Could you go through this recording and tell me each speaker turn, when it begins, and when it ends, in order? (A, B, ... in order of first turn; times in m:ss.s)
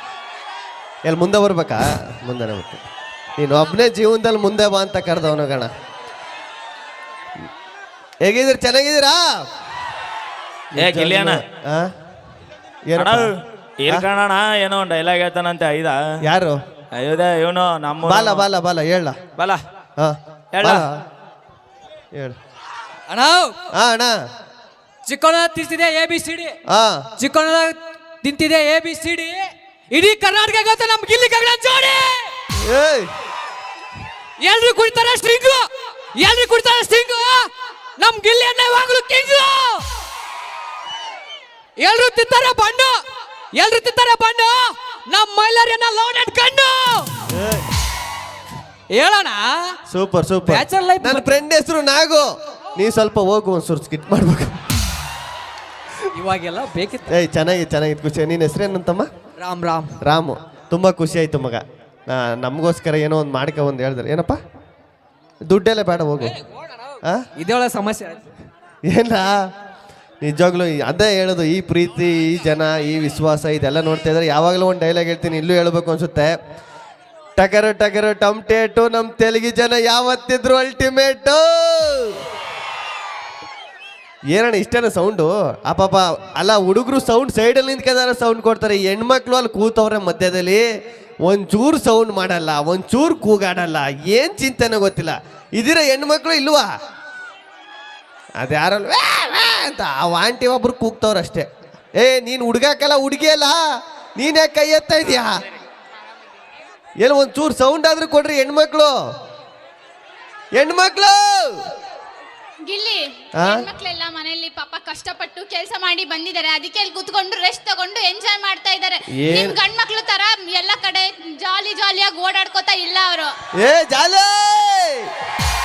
0:01.0-0:02.8 A
0:03.4-0:05.7 A
0:08.2-0:09.5 A
0:10.8-0:11.4 B
0:10.8-0:11.9 A
0:12.9-0:13.2 A
0:13.0-0:16.0 B
0:16.2-0:16.6 A
0:16.9-0:18.4 B
0:18.0-0:19.2 A
0:20.0-0:21.0 A
0:20.5-0:20.9 B
0:23.1-0:23.5 C
0:23.7-0:24.2 A
0:25.0-0:26.5 C
0:26.7-0:27.0 A
0:27.2-0:32.2 C
0:32.6-0:33.1 A
0:34.4-0:39.8 C
0:41.8-0:43.0 C
0:43.5-0:47.1 C
0:47.3-0:47.6 A
0:48.9-0:49.7 C
0:49.9-0:54.6 A
0:50.4-0:51.3 C
0:56.1-0:57.1 C
0:57.1-0:59.1 A
0:59.4-1:00.0 C
1:00.0-1:04.4 A
1:05.4-1:06.4 A
1:07.4-1:08.2 C
1:08.9-1:09.3 A
1:10.2-1:16.3 A
1:17.4-1:22.2 A
1:24.3-1:30.6 A
1:31.2-1:36.7 A
1:38.4-1:43.6 A
1:44.2-1:45.4 A
1:47.0-1:48.9 A
1:50.6-1:51.7 A
1:52.7-2:03.3 D
1:53.4-1:53.7 A
1:59.2-1:59.6 A
2:03.6-2:05.1 A